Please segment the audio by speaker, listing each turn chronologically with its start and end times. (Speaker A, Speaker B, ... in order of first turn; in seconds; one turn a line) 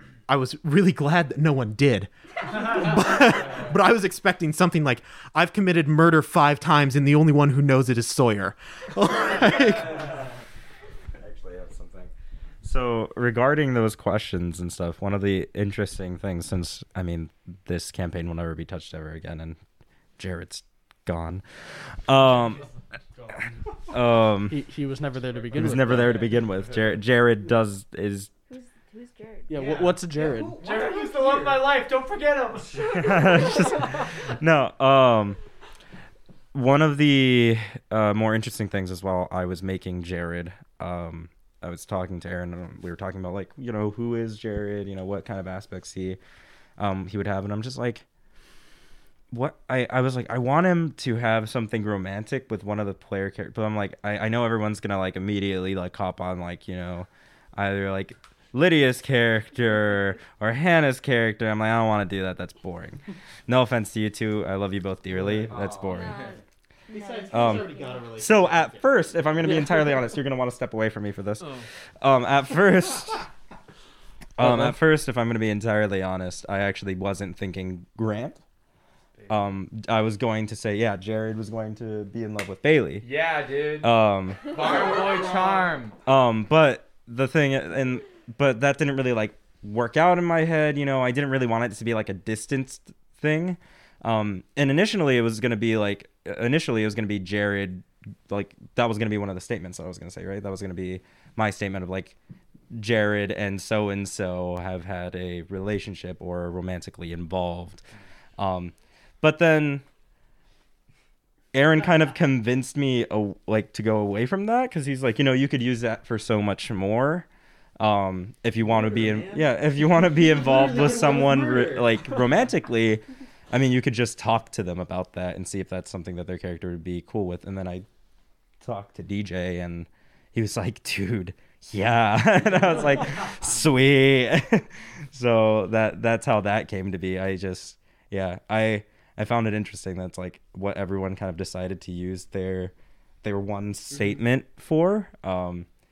Speaker A: 0.3-10.1
Speaker B: 9.3-10.1
Speaker B: 11.2-19.6
Speaker B: 20.2-22.6
Speaker C: 22.1-23.5
Speaker B: 23.9-24.6
Speaker D: 24.5-26.3
Speaker C: 25.3-26.9
Speaker B: 25.5-28.3
Speaker E: 28.5-29.8
Speaker D: 29.5-30.6
Speaker A: 29.6-31.7
Speaker C: 30.6-34.3
Speaker B: 32.8-35.4
Speaker B: 36.5-46.2
Speaker B: 46.8-48.0
Speaker B: 49.3-66.1
Speaker F: 65.4-66.3
Speaker E: 65.9-66.4
Speaker A: 66.9-69.2
Speaker E: 66.9-67.9
Speaker B: 67.3-73.2
Speaker D: 69.4-70.1
Speaker B: 74.4-78.4
Speaker B: 79.3-83.1
Speaker F: 83.0-86.0
Speaker B: 83.8-85.0
Speaker B: 86.0-102.1
Speaker B: 102.7-107.8
Speaker B: 108.4-109.8
Speaker B: 111.5-117.3
Speaker B: 117.8-127.9
Speaker A: 118.6-122.1
Speaker B: 128.6-145.7